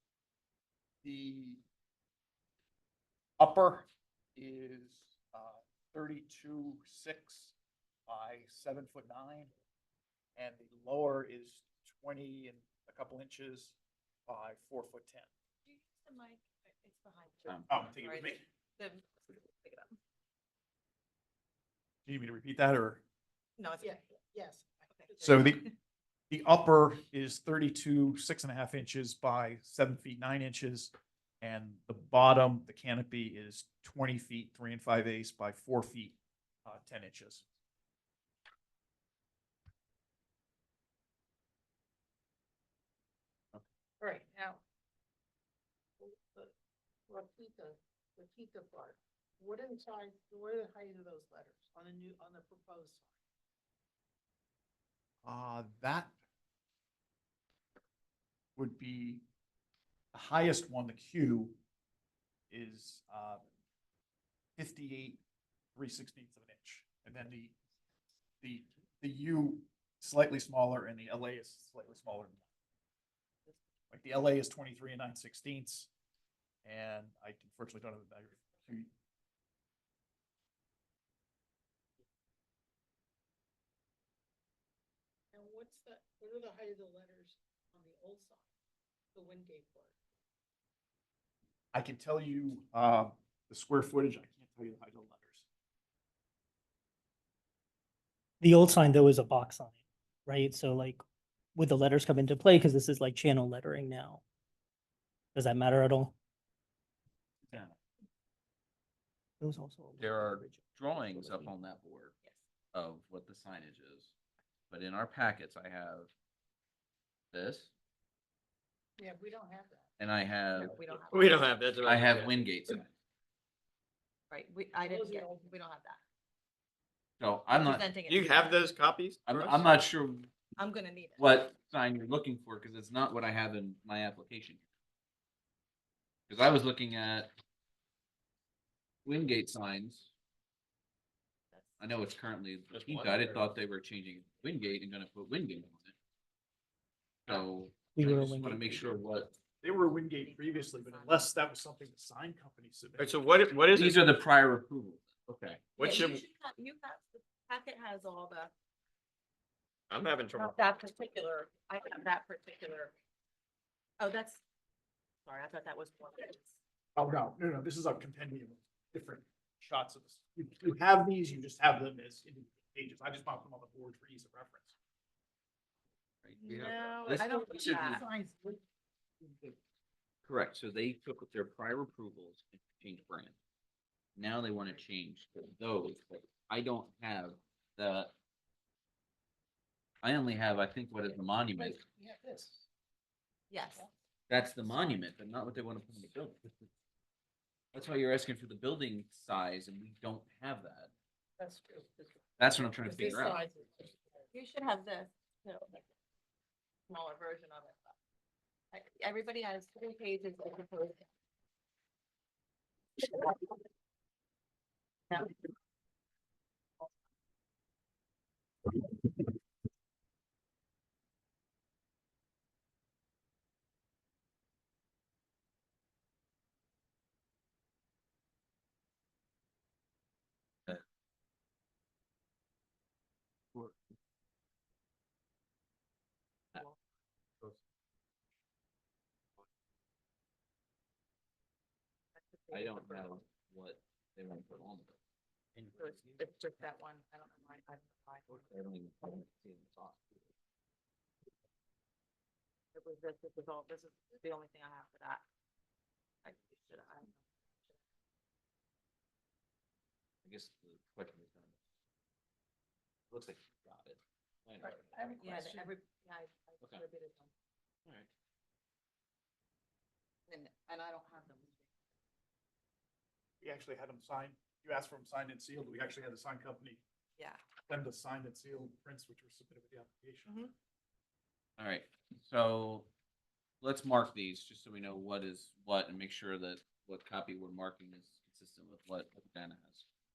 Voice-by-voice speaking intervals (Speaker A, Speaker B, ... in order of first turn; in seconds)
Speaker A: 1.0-1.6, 3.4-7.5, 8.1-9.5, 10.4-13.8, 14.3-15.3, 17.7-18.4, 22.1-23.0, 25.2-25.6, 26.3-37.5, 55.2-56.1, 58.6-59.2, 60.1-61.6, 62.5-63.4, 64.6-65.2, 65.8-67.5, 68.4-72.4, 73.9-75.9, 76.7-78.9, 91.7-95.5, 149.6-153.2, 166.9-174.8, 273.4-276.8, 277.7-280.3
Speaker B: 15.7-20.0, 23.6-24.1, 25.0-25.7, 120.5-121.6, 124.3-126.0, 127.5-128.7, 130.6-131.3, 141.5-141.9, 150.2-151.3, 155.8-158.5, 160.3-162.9, 164.0-164.4, 165.3-166.6, 176.4-178.1, 193.5-193.8, 204.3-205.8, 206.9-207.8, 208.7-211.1, 213.0-213.6, 236.5-236.8, 242.2-243.2, 245.7-248.5, 252.7-255.2, 256.2-257.2, 265.2-267.3, 270.3-271.6, 280.3-280.5
Speaker C: 23.8-25.5, 44.0-44.6, 46.0-46.5, 47.1-53.1, 85.3-88.5, 89.1-90.0, 119.0-119.9, 124.8-125.5, 176.7-178.6, 179.2-179.5, 191.0-192.7, 194.6-195.0, 201.4-204.3, 264.6-265.7
Speaker D: 98.4-101.0, 101.5-104.2, 105.3-106.2, 109.4-111.5, 148.0-148.9
Speaker E: 107.5-107.8, 110.0-112.1, 112.7-114.1, 114.7-116.1, 117.3-117.7, 120.0-120.8, 121.8-122.9, 127.2-127.9, 129.2-130.3, 131.2-134.6, 136.3-137.3, 139.1-140.1, 141.8-145.9, 147.3-149.3, 153.7-155.8, 176.2-177.8, 180.2-183.3, 184.2-188.1, 190.0-191.8, 194.3-196.5, 197.7-200.9, 202.4-203.4, 242.5-245.0, 245.6-246.2, 248.3-250.3, 260.2-261.6, 263.1-265.6, 281.6-282.9, 283.6-289.9
Speaker F: 121.1-122.4, 128.1-129.8, 142.7-143.5, 153.0-154.0, 155.8-156.2, 159.9-160.6